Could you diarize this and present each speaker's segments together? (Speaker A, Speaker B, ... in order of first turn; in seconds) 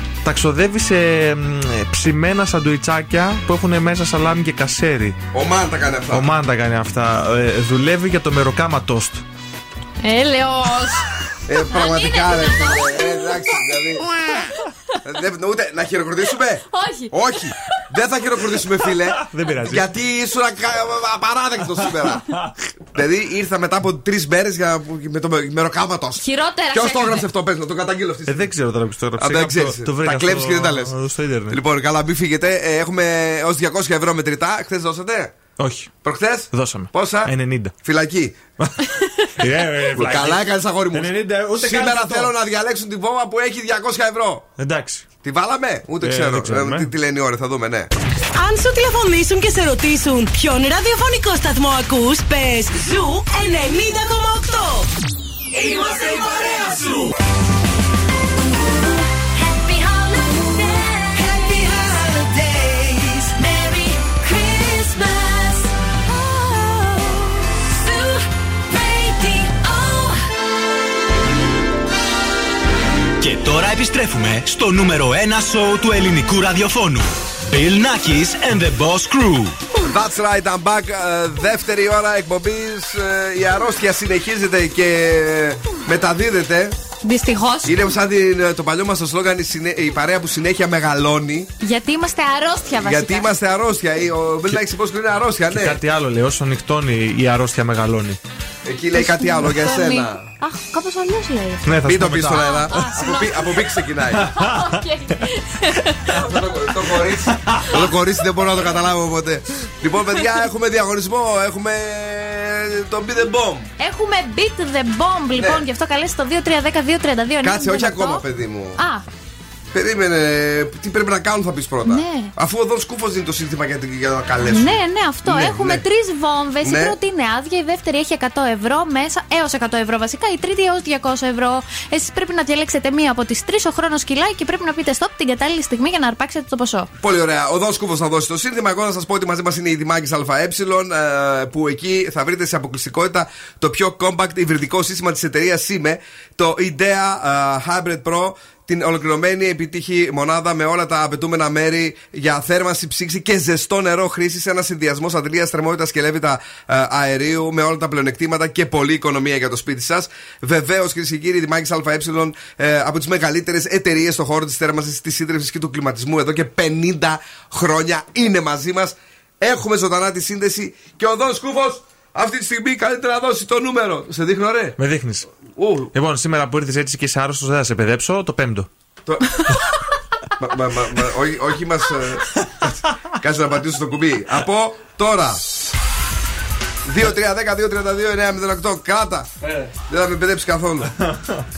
Speaker A: 0.2-5.2, 6.1-9.2, 19.2-19.9, 28.3-31.6, 35.6-35.9, 36.5-37.7, 39.4-42.3, 44.6-45.1, 46.0-46.9, 95.5-98.2, 101.7-102.9, 104.2-104.7, 174.8-175.3, 175.9-178.7
Speaker B: 5.3-6.3, 11.5-14.1, 15.1-22.2, 22.9-28.5, 29.2-30.9, 31.5-35.3, 36.0-37.3, 37.8-38.4, 39.9-44.5, 45.2-47.9, 79.8-86.8, 87.7-91.5, 92.8-95.8, 98.7-100.3, 101.8-104.3, 106.1-113.7, 115.4-115.6, 117.4-118.8, 119.7-125.8, 126.6-127.0, 137.0-174.8, 175.6-175.9, 179.1-179.3, 180.4-182.3, 183.2-185.4, 186.9-189.3, 189.9-190.9
Speaker C: 10.0-11.0, 11.7-13.5, 16.7-17.1, 26.2-27.3, 87.0-87.8, 91.6-93.3, 98.9-101.8, 102.3-103.5, 104.4-105.9, 113.8-118.2, 118.8-119.0, 121.9-122.3, 124.5-136.9
Speaker D: 48.7-54.7, 61.2-64.3
Speaker E: 73.2-79.6